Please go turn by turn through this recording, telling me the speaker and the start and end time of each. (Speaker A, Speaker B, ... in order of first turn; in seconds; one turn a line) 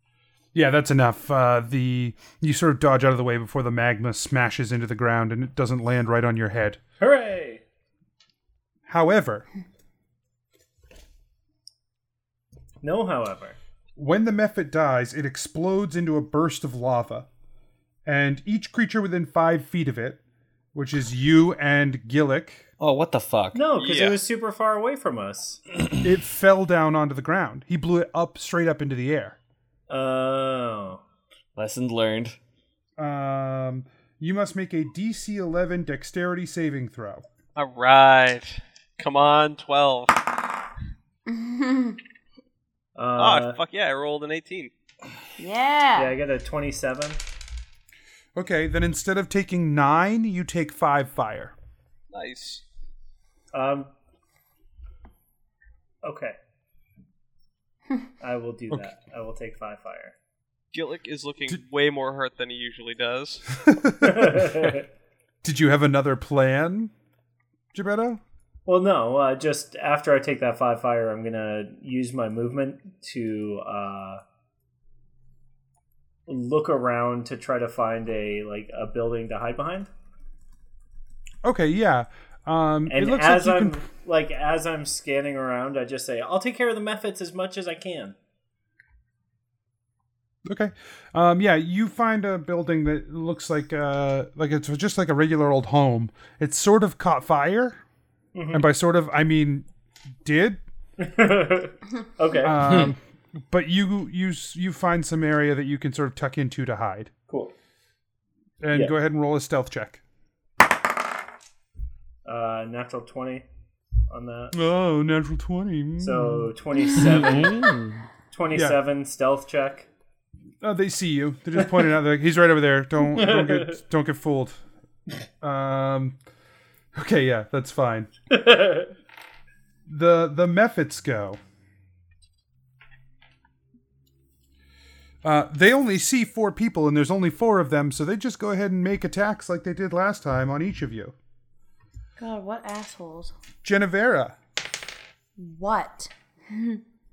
Speaker A: 0.5-6.8
Speaker B: 7.0-7.6
Speaker A: 8.9-9.4
Speaker B: 12.8-13.6
Speaker A: 14.0-17.3
Speaker A: 18.1-20.2
Speaker A: 20.7-22.6
Speaker C: 22.8-23.6
Speaker B: 23.5-25.6
Speaker D: 23.8-24.2
Speaker A: 26.0-29.4
Speaker B: 29.9-31.0
Speaker C: 31.6-32.4
Speaker A: 33.0-37.2
Speaker D: 37.5-40.2
Speaker E: 41.3-42.0
Speaker B: 43.0-43.6
Speaker D: 43.2-44.7
Speaker E: 45.4-46.1
Speaker B: 46.0-47.2
Speaker A: 48.3-51.5
Speaker D: 52.1-52.6
Speaker B: 53.5-53.9
Speaker B: 56.0-56.4
Speaker B: 58.2-60.1
Speaker D: 60.7-63.4
Speaker A: 63.6-64.6
Speaker B: 64.0-64.8
Speaker A: 65.4-66.9
Speaker A: 67.7-68.2
Speaker B: 68.7-74.2
Speaker B: 76.3-79.9
Speaker A: 81.4-83.8
Speaker B: 82.9-88.1
Speaker A: 90.5-97.8
Speaker B: 98.3-98.6
Speaker A: 98.5-99.7
Speaker A: 100.2-100.6
Speaker B: 101.0-102.8
Speaker A: 102.4-107.1
Speaker A: 108.6-110.0
Speaker B: 112.2-113.4
Speaker B: 114.1-114.5
Speaker A: 114.5-116.5
Speaker B: 116.0-117.7
Speaker C: 117.2-118.0
Speaker B: 118.3-119.9
Speaker A: 118.5-118.8
Speaker A: 120.6-124.6
Speaker B: 123.1-123.7
Speaker A: 125.4-126.2
Speaker A: 126.9-128.1
Speaker B: 128.3-128.9
Speaker A: 129.9-131.4
Speaker A: 135.2-141.1
Speaker E: 142.2-143.3
Speaker A: 143.6-144.4
Speaker E: 145.4-146.8